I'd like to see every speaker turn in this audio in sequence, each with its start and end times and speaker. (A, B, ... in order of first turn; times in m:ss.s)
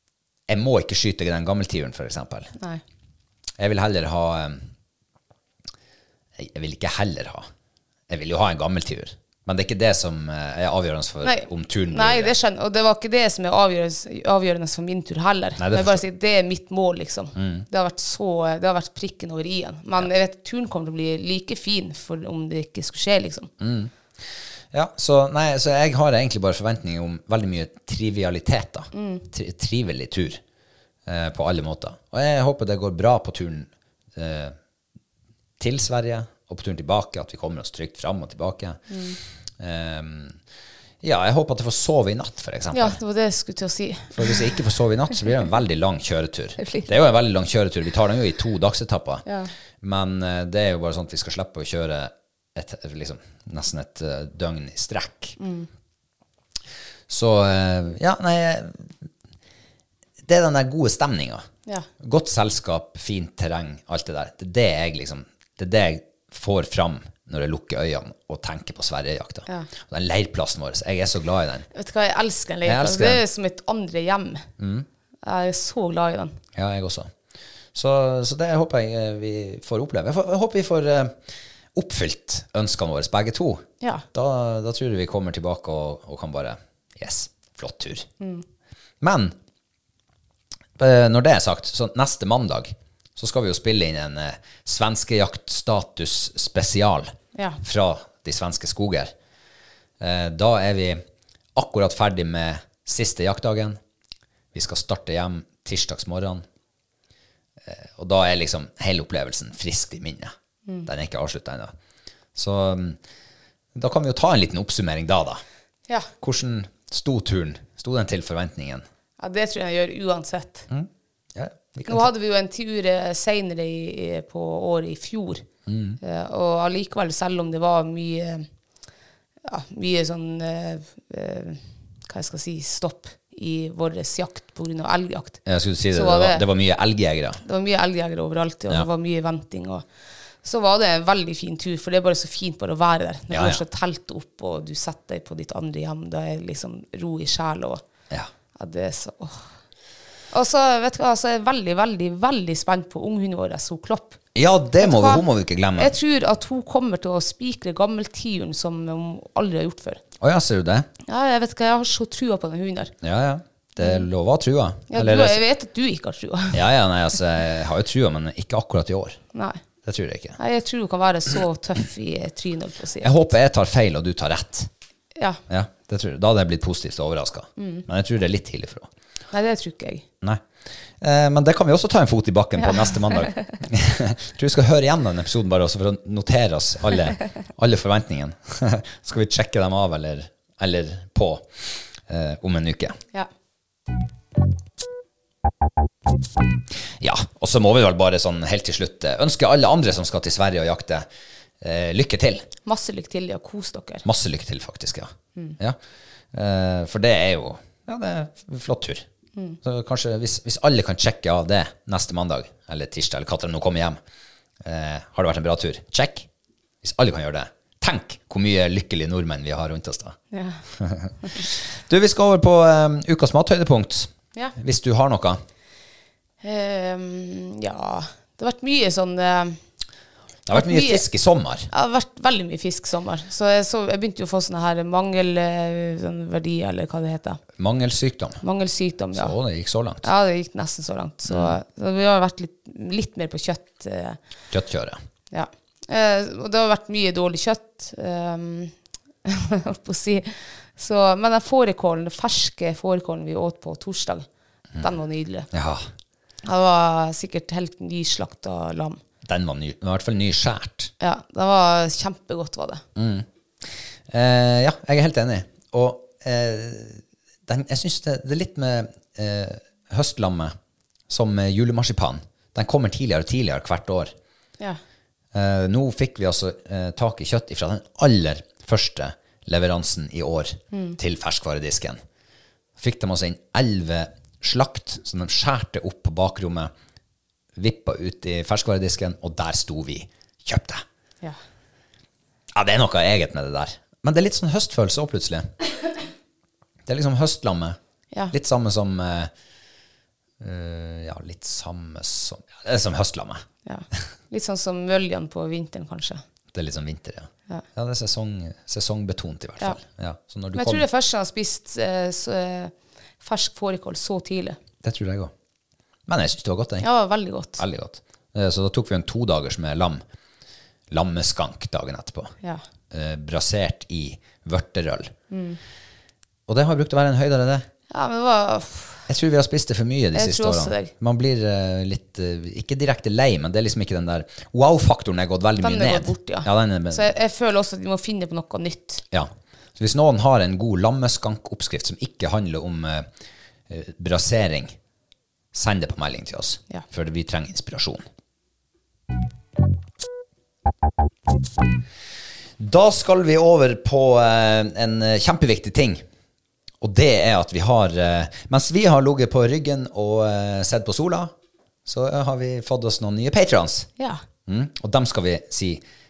0:00.5-0:02.5 A
0:03.6-0:04.6 A
0:06.4-0:07.5 A
0:08.1-0:12.4 A
0:11.2-0:23.5 B
0:15.6-0:16.0 A
0:17.4-0:17.7 A
0:23.6-0:30.4 A
0:28.9-0:29.2 B
0:31.1-0:34.6 A
0:35.6-0:38.8 A
0:38.9-0:39.2 B
0:39.6-0:40.4 A
0:41.0-0:43.0 A
0:42.7-0:44.5 B
0:44.2-0:49.2 A
0:46.6-0:46.9 B
0:49.3-0:49.5 B
0:49.8-0:55.4 A
0:55.4-0:55.7 B
0:57.1-0:59.0 A
1:00.2-1:01.5 A
1:02.0-1:11.7 A
1:11.7-1:14.5 B
1:12.6-1:13.2 A
1:14.6-1:14.9 A
1:15.2-1:16.4 B
1:16.6-1:17.1 A
1:17.7-1:21.2 A
1:21.8-1:28.1 A
1:28.2-1:28.4 B
1:29.0-1:29.4 A
1:30.8-1:39.1 A
1:37.4-1:37.6 B
1:40.0-1:41.0 A
1:41.6-1:43.8 A
1:44.5-1:46.4 A
1:47.6-1:50.3 A
1:50.9-1:51.7 A
1:52.4-1:53.0 A
1:53.8-1:55.4 A
1:56.2-1:58.8 A
1:59.2-2:00.7 B
2:00.7-2:02.1 A
2:01.9-2:05.4 B
2:05.7-2:06.0 A
2:06.0-2:08.5 B
2:09.4-2:15.4 B
2:15.5-2:17.4 A
2:15.9-2:16.4 B
2:17.4-2:19.8 B
2:20.4-2:27.8 B
2:23.3-2:23.6 A
2:28.6-2:29.5 B
2:30.3-2:34.2 B
2:34.4-2:36.0 A
2:34.8-2:35.2 B
2:35.8-2:40.0 B
2:40.2-2:40.9 A
2:41.1-2:42.9 B
2:43.0-2:45.4 A
2:43.8-2:44.0 B
2:44.9-2:46.6 B
2:46.5-2:49.2 A
2:49.3-2:49.6 B
2:49.8-2:50.4 A
2:50.4-2:53.1 B
2:53.0-2:54.7 A
2:55.5-2:58.9 A
2:57.6-2:57.9 B
2:59.3-3:00.0 B
3:01.0-3:13.0 A
3:02.6-3:03.5 B
3:17.0-3:21.1 A
3:21.6-3:22.5 A
3:22.7-3:24.0 B
3:24.0-3:25.8 A
3:26.3-3:29.0 A
3:29.6-3:34.0 A
3:34.6-3:36.3 A
3:36.8-3:40.2 A
3:40.3-3:40.6 B
3:40.8-3:45.4 A
3:46.4-3:49.6 B
3:50.5-3:51.7 A
3:50.5-3:51.0 B
3:51.7-3:57.4 B
3:57.6-3:58.4 A
3:58.4-3:59.3 B
3:59.1-4:00.1 A
4:00.0-4:04.2 B
4:01.3-4:01.6 A
4:04.5-4:05.0 A
4:05.3-4:08.7 B
4:09.2-4:14.3 B
4:14.8-4:15.5 B
4:15.5-4:15.9 A
4:16.4-4:19.0 B
4:19.2-4:20.9 A
4:21.0-4:22.8 B
4:23.0-4:30.6 A
4:31.1-4:34.1 A
4:35.3-4:42.0 A
4:40.7-4:41.0 B
4:42.8-4:46.7 A
4:47.6-4:50.8 A
4:52.5-4:55.5 A
4:56.9-4:57.8 A
4:58.3-4:59.3 A
5:00.4-5:03.4 A
5:03.6-5:06.2 B
5:06.5-5:10.9 A
5:10.5-5:14.6 B
5:14.8-5:15.3 A
5:16.1-5:16.9 A
5:16.8-5:17.6 B
5:17.6-5:20.0 A
5:20.9-5:22.3 A
5:22.9-5:25.1 A
5:25.3-5:25.6 B
5:26.5-5:27.7 A
5:27.9-5:29.1 B
5:29.1-5:37.1 A
5:30.2-5:30.9 B
5:35.6-5:39.0 B
5:39.1-5:43.1 A
5:43.7-5:44.8 A
5:45.5-5:48.0 A
5:52.6-5:56.0 A
5:56.8-6:01.3 A
6:01.9-6:03.9 A
6:04.5-6:05.8 A